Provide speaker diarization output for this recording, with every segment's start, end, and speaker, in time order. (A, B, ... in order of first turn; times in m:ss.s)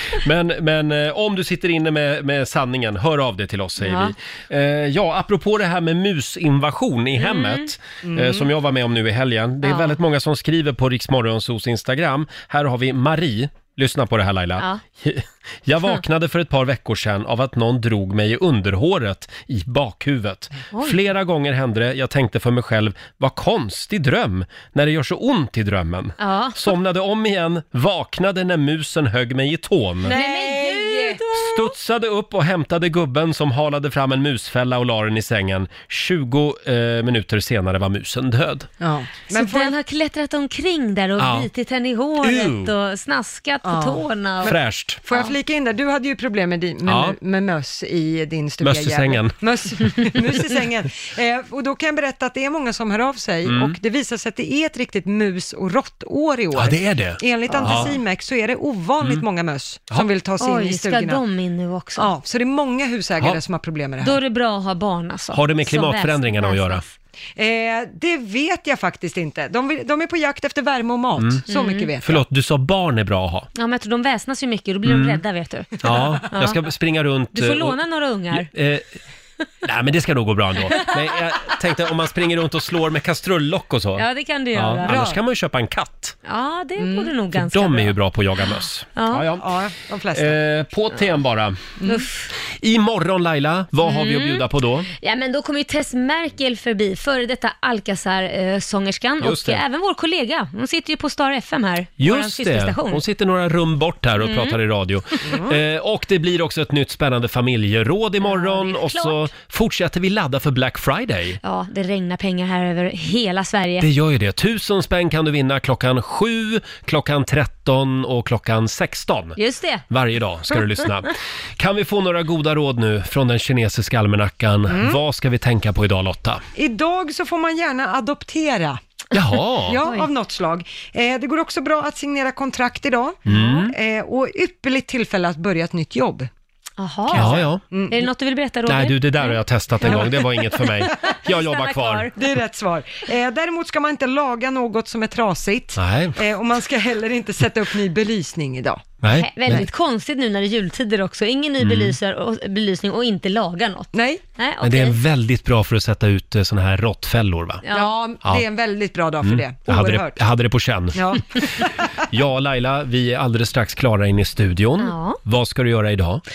0:00.1-0:30.1 A
0:03.8-0:04.1 B
0:07.2-0:07.7 B
0:08.0-0:08.4 C
0:09.6-0:10.0 B
0:20.7-0:21.0 B
0:26.2-0:26.7 B
0:30.0-0:31.2 C
0:30.1-0:31.7 B
0:31.3-0:38.7 A
0:38.8-0:39.7 C
0:39.3-0:44.5 B
0:41.2-0:41.5 A
0:42.2-0:42.7 A
0:43.6-1:01.2 C
0:44.4-0:45.0 A
0:46.8-0:47.2 A
0:48.6-0:50.0 A
0:53.4-0:53.8 A
0:56.5-0:58.0 A
0:57.5-0:57.9 B
0:59.0-0:59.2 A
1:00.4-1:02.1 B
1:02.0-1:04.2 C
1:04.0-1:06.9 B
1:05.3-1:06.8 A
1:07.4-1:12.2 C
1:11.2-1:11.4 A
1:11.5-1:11.9 B
1:12.0-1:13.5 A
1:13.5-1:16.6 B
1:14.8-1:15.2 A
1:15.8-1:17.8 A
1:17.3-1:18.5 B
1:18.4-1:18.9 A
1:19.6-1:26.2 A
1:24.0-1:25.0 B
1:24.8-1:25.2 C
1:26.2-1:27.9 B
1:26.8-1:27.1 C
1:27.3-1:29.5 A
1:29.0-1:29.3 B
1:29.4-1:30.4 C
1:30.1-1:31.6 A
1:31.8-1:32.1 C
1:31.8-1:32.3 B
1:32.5-1:34.9 A
1:33.8-1:43.0 B
1:39.2-1:39.6 A
1:42.0-1:51.4 A
1:44.2-1:44.6 B
1:45.3-1:45.5 C
1:48.2-1:49.3 B
1:51.4-1:53.9 B
1:53.8-2:06.4 A
1:59.4-1:59.8 B
2:04.7-2:05.0 C
2:06.6-2:08.8 C
2:09.1-2:09.8 A
2:09.6-2:16.3 C
2:09.8-2:10.1 B
2:13.3-2:13.7 A
2:13.3-2:13.6 B
2:16.8-2:22.2 B
2:17.1-2:17.6 A
2:17.1-2:18.1 C
2:18.6-2:22.1 A
2:22.2-2:29.0 C
2:25.8-2:26.2 A
2:29.0-2:29.6 A
2:29.1-2:35.0 B
2:31.6-2:31.9 A
2:33.9-2:34.2 C
2:34.6-2:37.6 A
2:37.6-2:38.0 B
2:37.7-2:40.2 C
2:39.2-2:46.2 A
2:40.9-2:41.7 C
2:44.8-2:45.2 B